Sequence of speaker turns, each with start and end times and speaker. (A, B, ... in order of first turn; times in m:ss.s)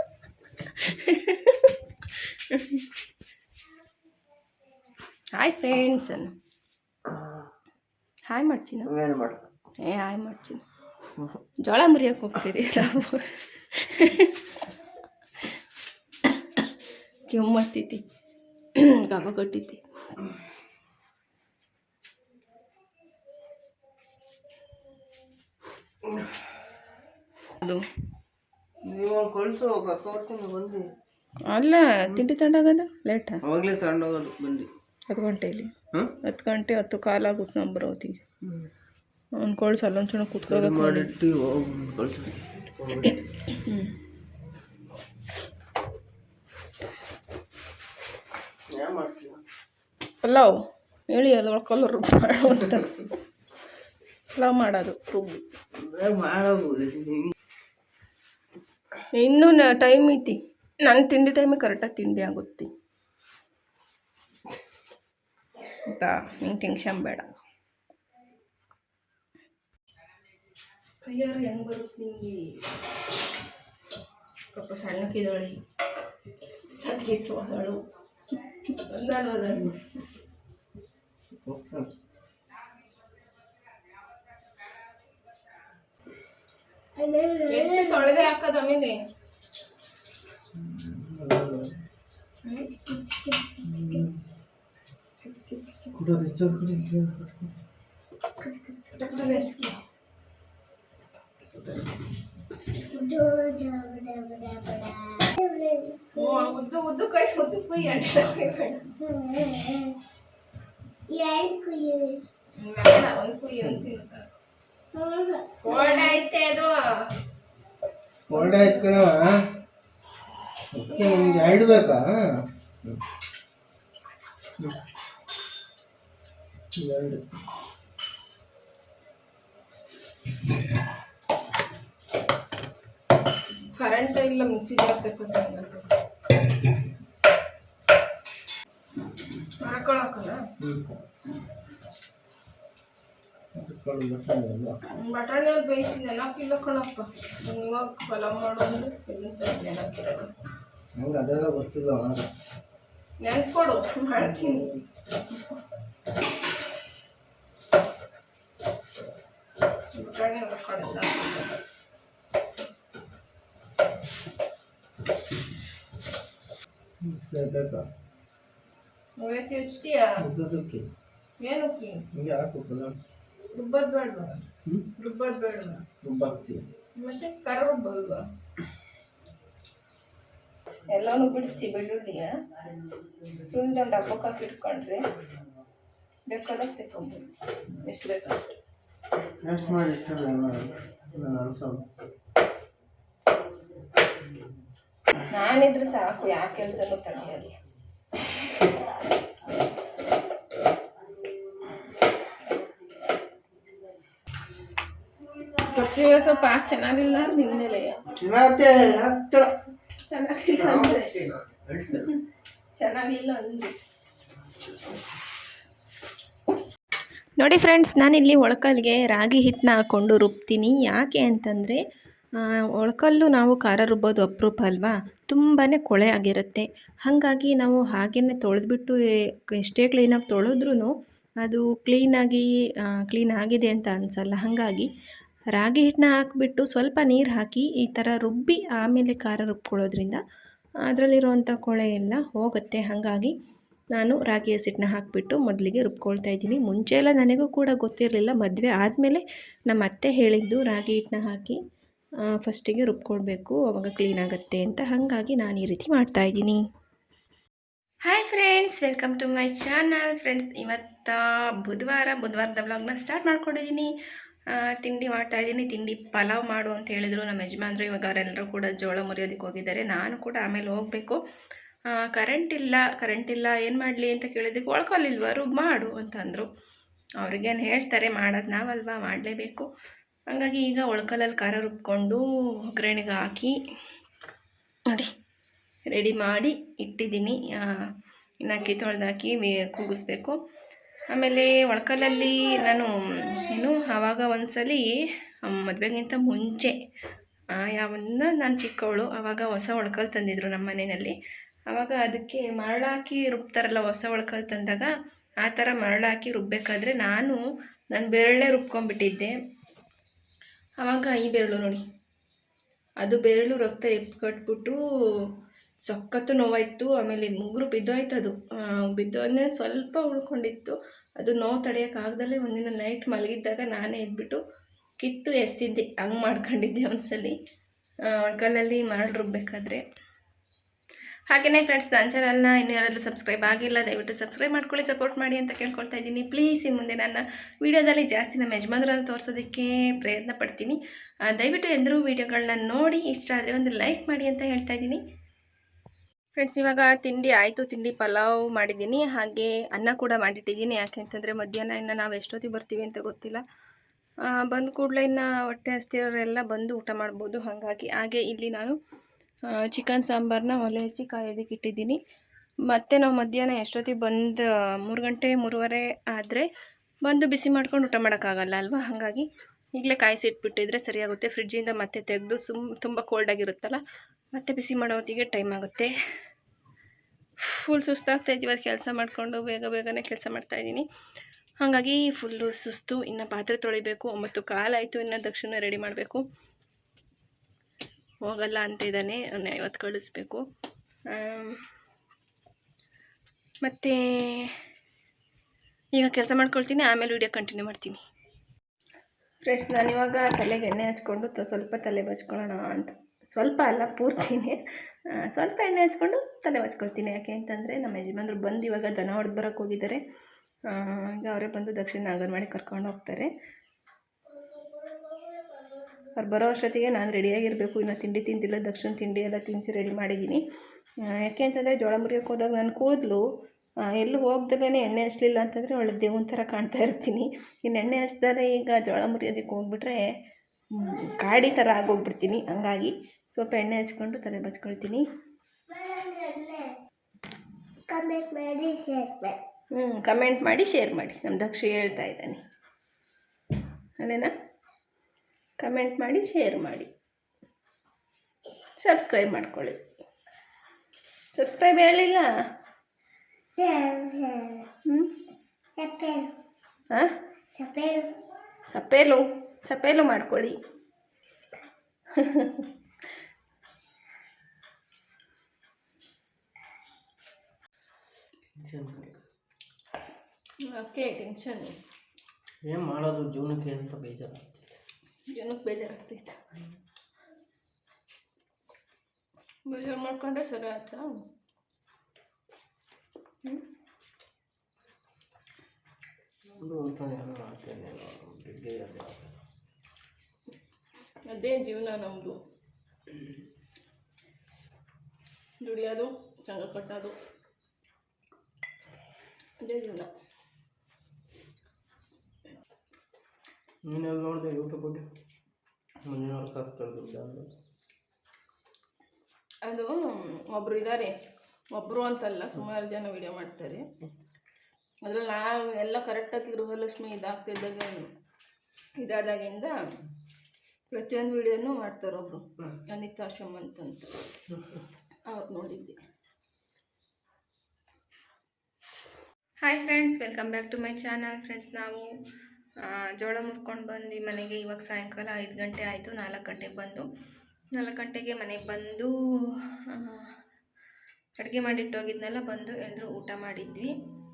0:00.6-0:02.9 A
0:05.3-0:06.3 A
0:08.3-0:08.9 A
0:08.8-0:09.4 B
0:09.8-0:10.6 A
0:11.6-0:14.5 A
0:16.2-0:16.7 A
0:17.2-0:18.0 A
0:18.7-0:19.8 A
0:28.8-0:30.8 B
0:31.5-0:33.4 A
0:33.4-0:34.7 B
0:35.1-0:38.2 A
0:39.4-0:41.1 A
0:40.5-0:43.1 B
0:43.5-0:43.9 A
0:48.7-0:49.4 B
0:50.2-0:50.5 A
0:51.1-0:53.1 A
0:54.4-0:55.4 A
0:55.7-0:57.3 B
0:59.2-1:02.7 A
1:05.8-1:07.3 A
1:11.0-1:12.6 A
1:14.5-1:15.6 A
1:16.8-1:17.8 A
1:18.4-1:19.8 A
1:21.2-1:21.9 B
1:27.0-1:28.2 C
1:27.5-1:29.0 A
1:30.5-1:31.7 B
1:32.5-1:32.8 A
1:32.8-1:33.6 C
1:33.6-1:34.2 B
1:35.9-1:37.5 B
1:38.4-1:39.6 C
1:38.9-1:39.8 A
1:41.6-1:41.8 B
1:42.8-1:46.4 C
1:46.1-1:49.2 A
1:49.1-1:50.0 C
1:51.1-1:52.2 C
1:52.6-1:54.3 A
1:54.9-1:56.2 C
1:55.6-1:57.1 A
1:58.3-1:59.4 B
1:58.3-1:58.7 A
2:00.7-2:02.2 B
2:00.9-2:01.8 C
2:06.8-2:07.2 B
2:13.8-2:15.9 A
2:19.6-2:20.4 A
2:20.6-2:20.9 B
2:23.5-2:24.8 B
2:24.9-2:30.3 A
2:31.0-2:32.3 B
2:33.2-2:34.7 A
2:34.2-2:34.8 B
2:35.3-2:35.6 A
2:39.9-2:41.6 A
2:47.0-2:47.8 B
2:49.2-2:50.2 A
2:50.2-2:50.9 B
2:51.4-2:52.0 A
2:52.1-2:53.0 B
2:53.5-2:54.4 A
2:55.0-2:55.8 A
2:56.0-2:56.6 B
2:57.0-2:58.2 A
3:00.9-3:02.3 A
3:03.2-3:05.0 A
3:06.3-3:08.4 A
3:09.4-3:11.8 B
3:15.3-3:17.5 A
3:25.6-3:28.0 A
3:28.1-3:29.5 B
3:30.0-3:31.2 A
3:30.6-3:32.1 B
3:31.9-3:32.2 A
3:32.7-3:33.7 A
3:37.4-3:41.8 A
3:42.4-3:54.9 A
3:55.5-4:00.2 A
4:00.9-4:03.3 A
4:03.9-4:11.6 A
4:12.3-4:16.6 A
4:18.0-4:23.9 A
4:24.5-4:31.2 A
4:31.9-4:36.5 A
4:37.2-4:39.7 A
4:40.3-4:43.5 A
4:45.9-4:47.8 A
4:48.4-4:50.4 A
4:51.1-4:56.8 A
4:57.5-5:01.2 A
5:01.7-5:04.9 A
5:05.4-5:07.4 A
5:07.9-5:09.3 A
5:10.8-5:11.8 A
5:13.0-5:14.8 A
5:15.9-5:24.4 A
5:25.0-5:27.4 A
5:28.1-5:29.8 A
5:31.3-5:45.0 A
5:46.4-5:53.4 A
5:54.3-5:58.8 A
5:59.5-6:02.0 A
6:02.7-6:06.5 A
6:07.0-6:13.8 A
6:14.3-6:15.9 A
6:17.4-6:20.8 A
6:21.6-6:26.2 A
6:28.2-6:30.4 A
6:31.1-6:31.6 A
6:33.6-6:34.6 A
6:35.9-6:38.0 A
6:39.4-6:44.6 A
6:45.1-6:50.0 A
6:50.7-6:53.3 A
6:54.5-6:55.4 C
6:56.2-7:00.4 A
7:01.0-7:03.2 A
7:03.9-7:10.0 A
7:10.7-7:15.0 A
7:15.7-7:16.8 C
7:17.9-7:19.4 C
7:19.7-7:22.4 A
7:24.0-7:24.3 A
7:25.6-7:26.9 A
7:28.8-7:29.8 A
7:31.4-7:32.3 A
7:33.6-7:34.7 C
7:34.8-7:35.2 A
7:35.8-7:36.3 C
7:37.6-7:38.2 C
7:38.7-7:40.6 A
7:42.1-7:42.7 A
7:48.6-7:49.2 B
7:50.6-7:51.7 A
7:52.6-7:54.5 B
7:55.3-7:56.4 A
7:59.7-8:01.2 A
8:06.5-8:09.3 B
8:11.3-8:12.4 A
8:15.6-8:17.2 A
8:19.6-8:20.1 A
8:23.8-8:25.1 B
8:26.0-8:27.5 B
8:29.6-8:31.1 A
8:31.7-8:33.9 A
8:35.0-8:38.1 A
8:39.0-8:39.7 A
8:40.9-8:44.1 A
8:45.3-8:46.0 A
8:49.6-8:52.1 A
8:52.8-8:57.0 A
8:57.8-8:59.1 A
8:59.9-9:00.4 A
9:01.4-9:03.9 A